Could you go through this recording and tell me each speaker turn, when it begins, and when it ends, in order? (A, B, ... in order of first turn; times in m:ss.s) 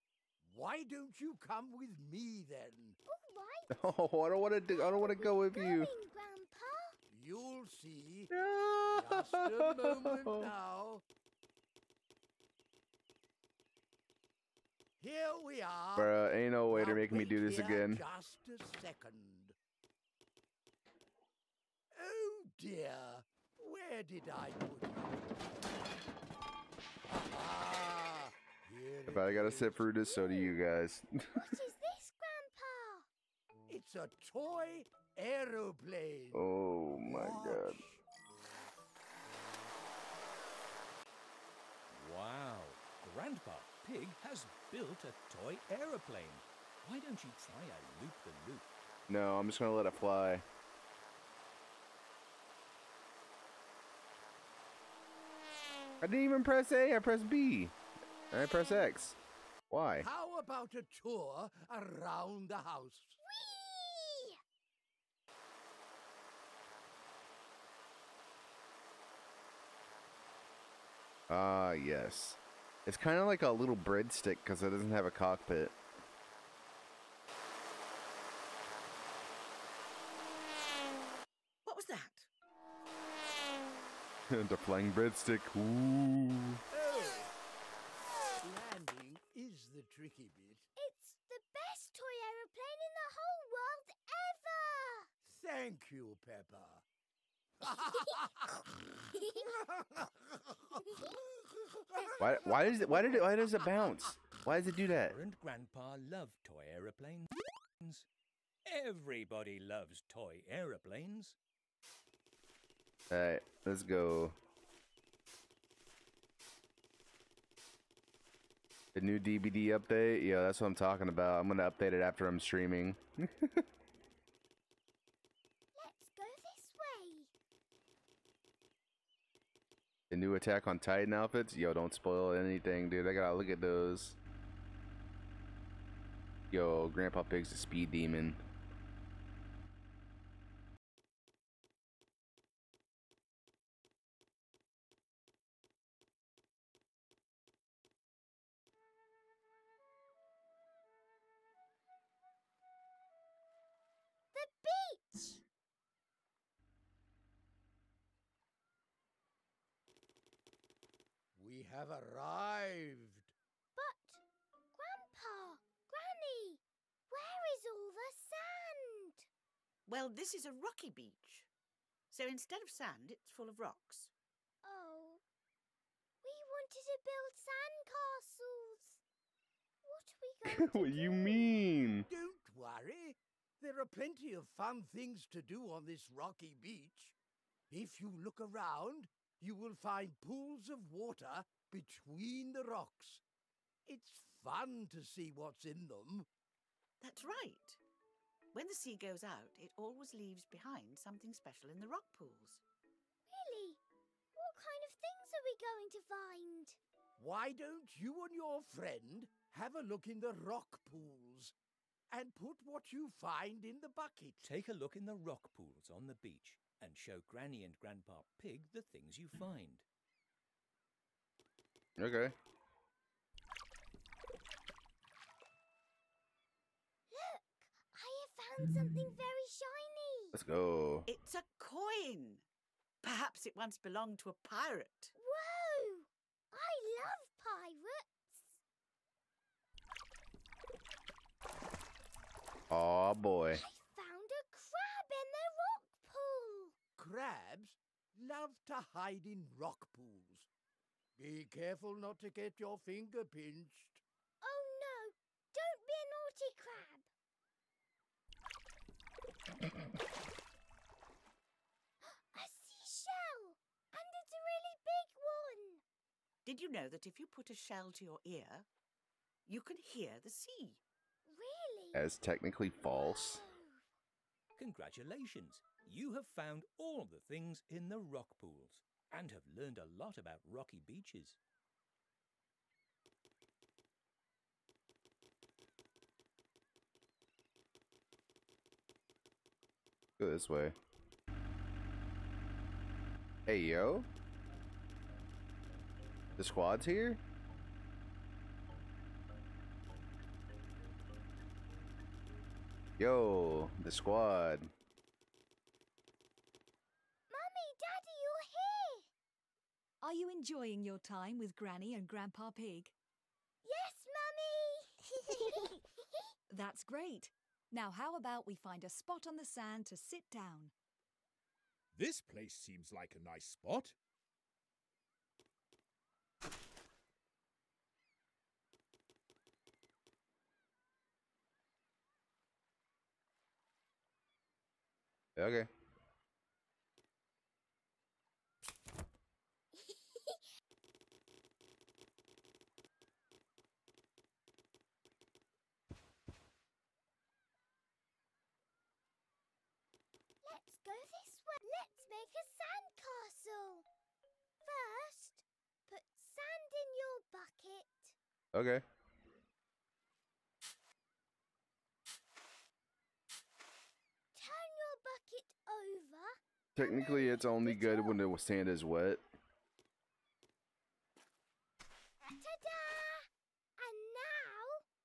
0:00.4-0:03.0 A
0:03.0-0:03.9 B
0:03.7-0:05.9 C
0:04.7-0:07.0 B
0:07.1-0:08.3 A
0:08.3-0:10.5 C
0:08.9-0:11.0 A
0:15.0-0:19.6 A
0:16.0-0:18.0 C
0:21.9-0:25.3 A
0:27.1-0:29.8 A
0:29.1-0:31.4 C
0:30.0-0:30.6 B
0:31.3-0:33.1 B
0:33.7-0:36.4 A
0:36.3-0:37.8 C
0:37.0-0:38.0 A
0:41.9-0:48.7 D
0:49.1-0:50.4 C
0:56.0-0:57.7 C
0:58.3-0:59.2 C
0:59.7-1:00.1 C
1:00.0-1:03.2 A
1:03.2-1:04.4 B
1:11.3-1:15.8 C
1:21.6-1:22.3 E
1:24.3-1:26.6 C
1:26.7-1:27.3 A
1:28.4-1:30.6 A
1:30.8-1:35.1 B
1:35.2-1:36.8 A
1:37.6-1:38.7 A
1:39.3-1:41.0 A
1:41.9-1:43.0 A
1:42.2-1:45.2 C
1:45.1-1:48.1 D
1:48.6-1:51.4 D
1:53.1-1:54.4 C
1:58.9-2:03.6 C
2:05.7-2:07.3 B
2:10.1-2:14.2 C
2:16.5-2:18.4 C
2:34.3-2:35.4 B
2:41.4-2:43.3 A
2:43.8-2:44.2 B
2:44.7-2:49.3 B
2:49.8-2:51.5 E
2:52.1-2:54.1 E
2:54.6-2:55.2 B
2:56.2-2:59.0 B
2:59.8-3:01.7 B
3:00.4-3:02.1 C
3:02.1-3:07.1 A
3:07.7-3:13.2 A
3:13.9-3:16.3 A
3:17.0-3:17.8 E
3:18.5-3:22.6 E
3:23.3-3:23.8 B
3:24.4-3:26.8 B
3:27.2-3:31.5 A
3:32.1-3:34.5 A
3:34.4-3:39.8 D
3:42.0-3:42.3 C
3:47.1-3:50.4 B
3:50.3-3:51.1 C
3:51.1-3:52.4 E
3:53.0-3:55.1 E
3:55.1-3:58.6 B
4:02.7-4:03.6 C
4:03.5-4:06.8 B
4:07.0-4:10.5 A
4:11.2-4:14.0 A
4:14.4-4:17.1 B
4:22.0-4:25.8 B
4:26.4-4:28.7 E
4:29.4-4:30.8 E
4:31.2-4:32.0 B
4:31.9-4:33.4 C
4:32.9-4:33.8 B
4:34.6-4:41.4 D
4:50.2-4:50.8 C
4:53.4-4:54.1 C
4:56.4-4:57.2 C
5:03.0-5:04.7 C
5:07.3-5:09.1 B
5:10.0-5:12.9 F
5:13.6-5:16.2 B
5:16.5-5:20.7 F
5:21.9-5:23.9 G
5:35.4-5:35.7 C
5:50.4-5:53.8 B
5:54.6-5:58.2 B
5:58.5-5:58.8 C
6:04.3-6:08.2 B
6:06.7-6:09.2 C
6:12.3-6:14.8 B